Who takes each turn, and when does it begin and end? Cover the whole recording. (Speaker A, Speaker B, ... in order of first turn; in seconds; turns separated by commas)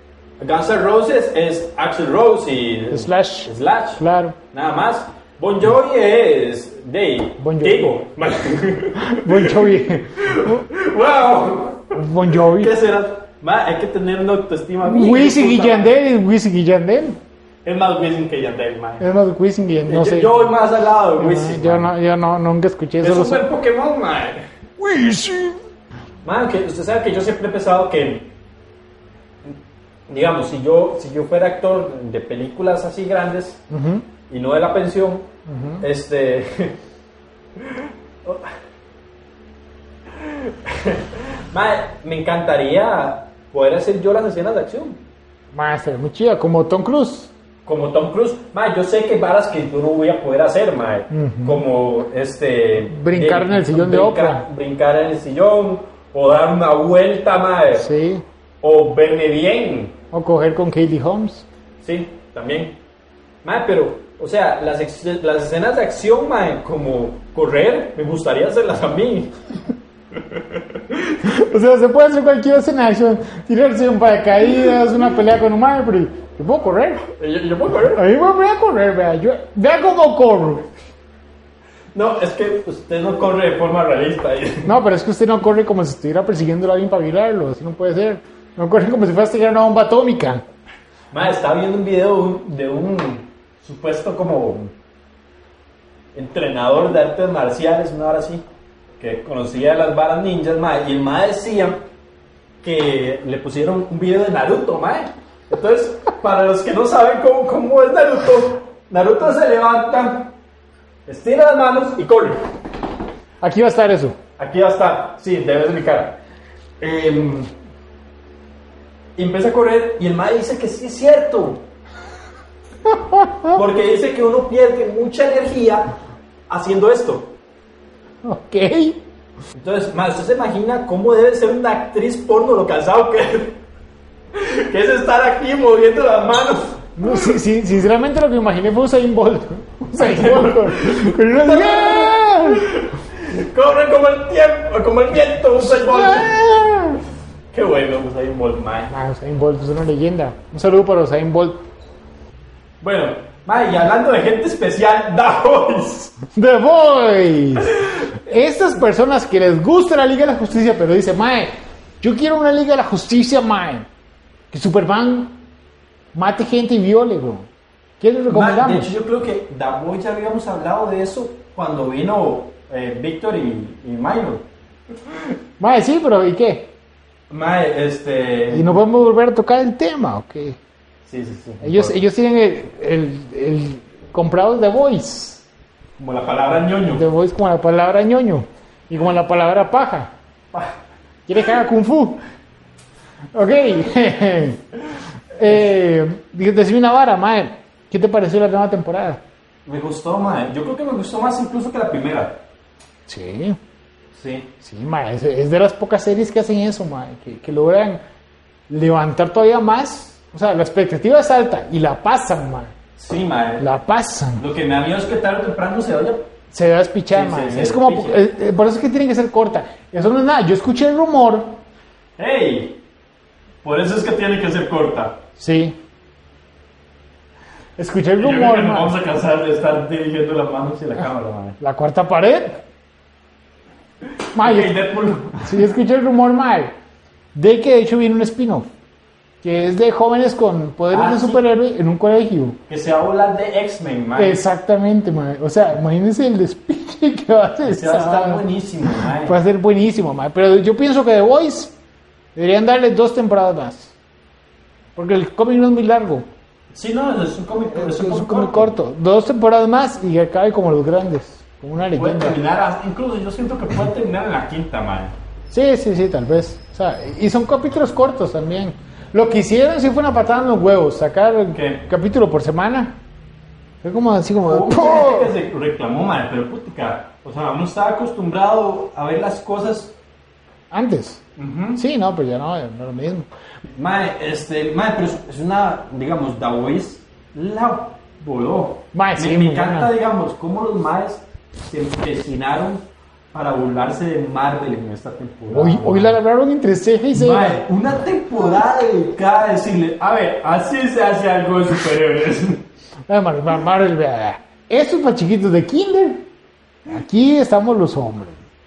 Speaker A: 0.4-15.9, Speaker B: 2.9-4.4, Speaker B: 7.4-8.0, Speaker B: 9.0-10.7, Speaker B: 11.9-12.8, Speaker B: 14.8-17.2, Speaker A: 17.6-19.1, Speaker B: 19.0-20.4, Speaker A: 19.9-21.9, Speaker B: 21.2-23.4, Speaker A: 23.0-24.4, Speaker B: 24.8-25.6, Speaker A: 26.2-28.3, Speaker A: 30.1-33.6, Speaker B: 33.7-34.1, Speaker A: 34.3-35.3, Speaker B: 35.5-35.9, Speaker A: 35.8-36.8, Speaker A: 37.6-38.5, Speaker A: 40.2-45.0, Speaker B: 45.5-47.3, Speaker A: 47.6-57.9, Speaker B: 51.1-51.6, Speaker B: 52.9-54.5, Speaker B: 57.8-58.2, Speaker A: 58.6-60.0, Speaker B: 60.1-61.5, Speaker A: 61.8-62.8, Speaker A: 63.4-69.3, Speaker B: 71.2-77.0, Speaker A: 77.1-78.0, Speaker B: 77.9-80.7, Speaker A: 82.0-84.7, Speaker B: 84.7-90.4, Speaker A: 91.1-94.7, Speaker A: 96.2-98.4, Speaker A: 99.0-101.8, Speaker A: 102.6-110.3, Speaker A: 111.1-112.4, Speaker B: 113.4-114.2, Speaker A: 114.4-116.2, Speaker A: 116.8-117.5, Speaker A: 119.2-121.6, Speaker B: 122.9-123.6, Speaker A: 123.5-125.9, Speaker A: 126.5-127.3, Speaker B: 128.2-129.0, Speaker A: 129.6-133.6, Speaker A: 134.3-137.3, Speaker B: 137.0-142.7, Speaker A: 140.0-146.4, Speaker B: 145.6-147.0, Speaker A: 147.5-148.9, Speaker B: 148.9-151.6, Speaker A: 152.8-156.2, Speaker B: 156.3-163.9, Speaker B: 164.5-165.3, Speaker B: 166.1-167.4, Speaker B: 168.0-168.9, Speaker A: 168.3-174.4, Speaker B: 175.6-176.7, Speaker A: 177.3-178.8, Speaker B: 178.5-180.6, Speaker A: 181.1-182.0, Speaker B: 181.6-185.4, Speaker A: 186.0-187.1, Speaker B: 186.9-190.1, Speaker A: 190.5-190.8, Speaker B: 191.3-192.2, Speaker B: 193.3-194.6, Speaker B: 195.3-199.2, Speaker A: 199.7-202.4, Speaker B: 203.1-203.6, Speaker A: 204.1-204.5, Speaker B: 204.6-208.0, Speaker B: 208.7-212.7, Speaker A: 213.0-213.7, Speaker B: 213.6-214.4, Speaker A: 214.4-216.3, Speaker B: 216.5-221.6, Speaker A: 217.1-218.2, Speaker A: 222.2-222.8, Speaker A: 223.6-225.2, Speaker B: 225.4-225.8, Speaker B: 227.8-229.0, Speaker A: 228.2-231.6, Speaker B: 231.6-232.6, Speaker A: 234.2-235.6, Speaker B: 234.3-234.8, Speaker B: 235.4-236.7, Speaker B: 237.3-238.7, Speaker B: 239.4-242.6, Speaker A: 240.9-241.4, Speaker A: 242.7-244.4, Speaker B: 244.2-251.8, Speaker A: 247.7-249.4, Speaker B: 252.4-253.9, Speaker B: 255.0-256.2, Speaker A: 256.7-258.7, Speaker B: 257.7-262.4, Speaker A: 262.0-265.1, Speaker B: 265.5-273.0, Speaker A: 271.5-271.8, Speaker B: 273.8-275.3, Speaker A: 274.5-279.9, Speaker B: 280.7-281.2, Speaker A: 281.4-281.8, Speaker B: 281.8-283.3, Speaker A: 283.8-296.2, Speaker B: 288.9-289.9, Speaker B: 295.5-297.6, Speaker A: 297.1-302.6, Speaker B: 303.1-306.3, Speaker B: 306.9-308.4